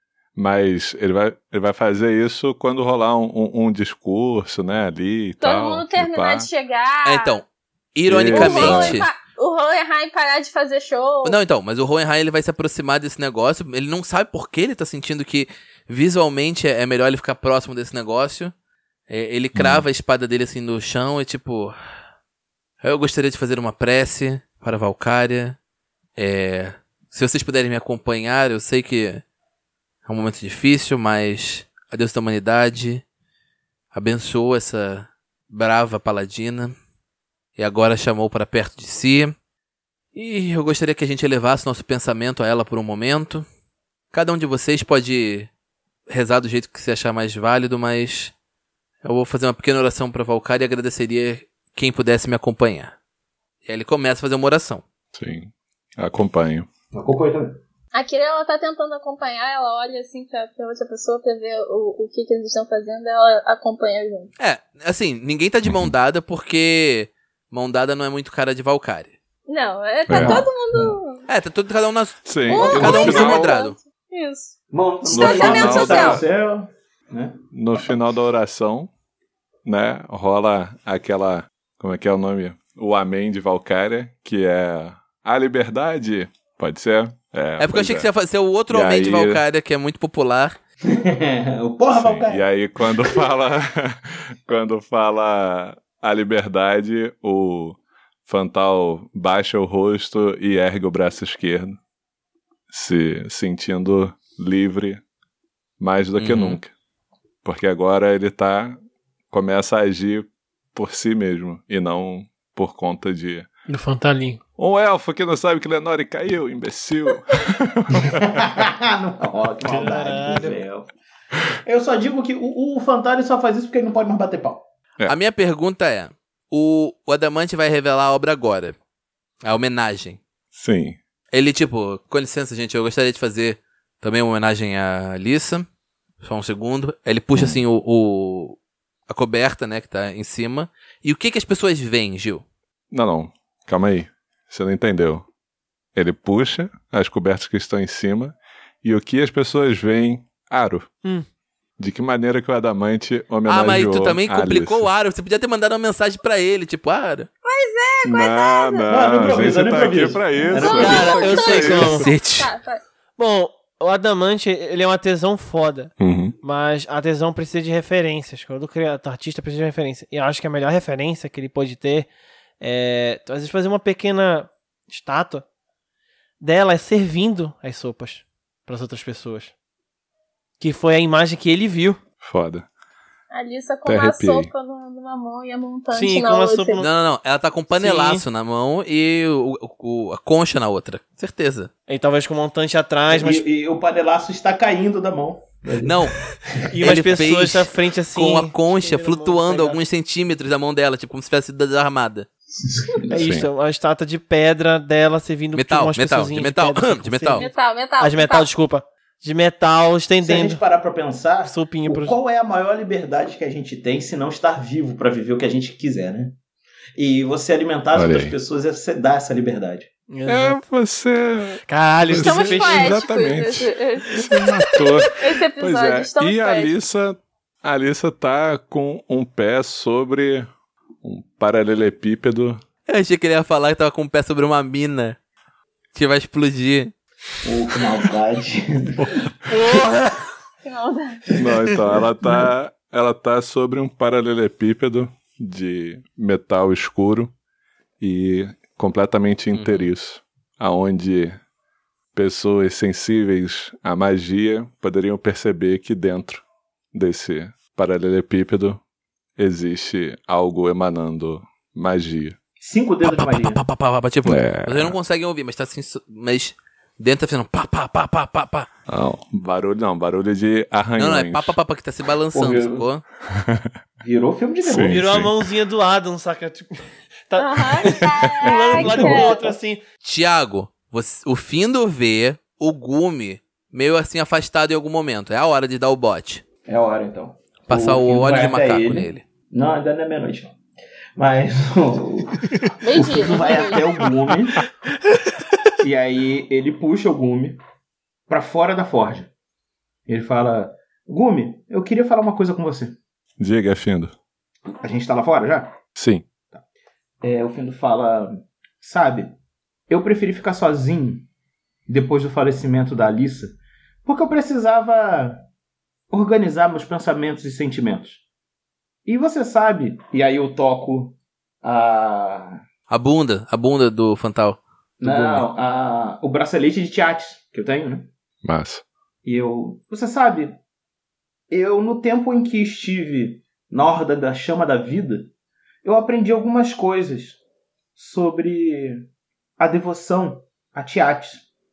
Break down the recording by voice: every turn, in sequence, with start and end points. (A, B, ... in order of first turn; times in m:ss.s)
0:00.4-0:06.5 A
0:05.4-0:07.4 B
0:07.0-0:09.1 C
0:08.1-0:09.0 A
0:08.3-0:11.4 B
0:11.2-0:18.5 C
0:19.1-0:21.8 C
0:19.5-0:19.8 A
0:22.8-0:25.6 C
0:26.2-0:29.2 C
0:30.0-0:33.0 C
0:33.9-0:36.7 C
0:37.6-0:39.4 C
0:40.1-0:43.4 C
0:44.1-0:45.5 C
0:46.1-0:48.3 C
0:49.0-0:53.0 C
0:53.6-0:54.8 C
0:55.1-0:56.7 A
0:56.9-0:57.6 D
0:57.9-1:04.3 B
1:04.4-1:09.2 C
1:05.6-1:05.9 A
1:09.5-1:11.3 B
1:10.1-1:10.4 A
1:10.1-1:10.9 D
1:11.3-1:13.8 C
1:12.2-1:13.5 A
1:12.5-1:14.6 B
1:14.7-1:17.4 D
1:15.1-1:16.2 B
1:15.1-1:16.2 A
1:17.5-1:18.9 A
1:19.6-1:28.1 A
1:27.6-1:30.6 C
1:28.7-1:29.4 A
1:30.9-1:32.4 D
1:31.9-1:41.8 A
1:42.7-1:45.0 A
1:45.8-1:46.7 A
1:46.2-1:46.6 C
1:47.4-1:48.8 A
1:49.3-1:53.5 A
1:53.7-1:54.4 E
1:54.6-1:58.7 A
1:58.1-2:00.9 D
1:59.6-2:00.6 E
2:01.6-2:04.6 D
2:05.1-2:08.8 C
2:09.4-2:10.2 C
2:10.5-2:11.0 A
2:11.3-2:15.7 C
2:16.2-2:22.4 C
2:22.9-2:25.3 A
2:25.9-2:30.9 A
2:31.8-2:34.9 A
2:33.5-2:37.3 C
2:37.4-2:39.4 B
2:38.0-2:42.1 A
2:38.9-2:41.4 D
2:40.5-2:42.8 B
2:40.7-2:42.1 E
2:41.4-2:42.5 C
2:43.2-2:52.1 E
2:46.0-2:46.4 A
2:52.6-2:55.4 E
2:56.4-2:59.5 E
3:00.6-3:02.0 E
3:02.2-3:02.7 A
3:03.3-3:06.8 B
3:03.8-3:04.5 A
3:05.9-3:06.9 E
3:06.8-3:11.7 C
3:07.7-3:08.2 E
3:11.9-3:13.4 E
3:13.1-3:16.2 D
3:15.8-3:16.2 C
3:16.7-3:19.8 E
3:16.8-3:22.3 C
3:22.9-3:23.3 D
3:23.1-3:30.6 E
3:23.1-3:23.5 A
3:25.6-3:27.5 C
3:27.4-3:28.5 B
3:30.2-3:36.4 D
3:31.4-3:32.1 E
3:37.0-3:39.9 D
3:37.9-3:38.4 A
3:40.1-3:40.6 E
3:40.3-3:50.5 A
3:41.7-3:43.1 E
3:42.2-3:46.7 B
3:51.0-3:52.6 A
3:52.9-3:55.2 C
3:55.9-3:56.9 C
3:57.4-3:59.2 D
3:59.0-3:59.3 A
3:59.5-4:00.3 E
4:00.6-4:01.3 B
4:01.4-4:07.3 A
4:08.0-4:11.4 A
4:09.5-4:09.9 C
4:12.1-4:18.8 A
4:19.4-4:22.4 A
4:22.6-4:23.6 D
4:23.0-4:28.7 C
4:24.2-4:25.0 A
4:28.9-4:31.6 A
4:31.0-4:33.0 C
4:32.3-4:32.8 D
4:33.3-4:33.7 A
4:34.0-4:35.1 D
4:34.6-4:35.3 A
4:34.8-4:39.8 E
4:37.4-4:39.4 B
4:38.6-4:39.6 D
4:40.0-4:46.4 C
4:46.7-4:50.6 D
4:47.7-4:49.2 C
4:51.2-4:54.6 D
4:52.8-4:53.8 B
4:55.8-4:57.6 D
4:58.3-4:59.3 D
5:00.1-5:03.0 D
5:03.4-5:04.1 A
5:04.7-5:05.8 D
5:05.9-5:06.3 A
5:07.2-5:09.4 D
5:09.9-5:11.3 D
5:11.9-5:15.4 D
5:16.1-5:18.2 D
5:19.1-5:22.6 D
5:22.9-5:25.4 C
5:25.0-5:28.1 D
5:28.4-5:28.8 A
5:29.2-5:30.6 D
5:31.5-5:35.3 D
5:35.8-5:37.4 D
5:38.0-5:39.1 D
5:39.6-5:41.4 D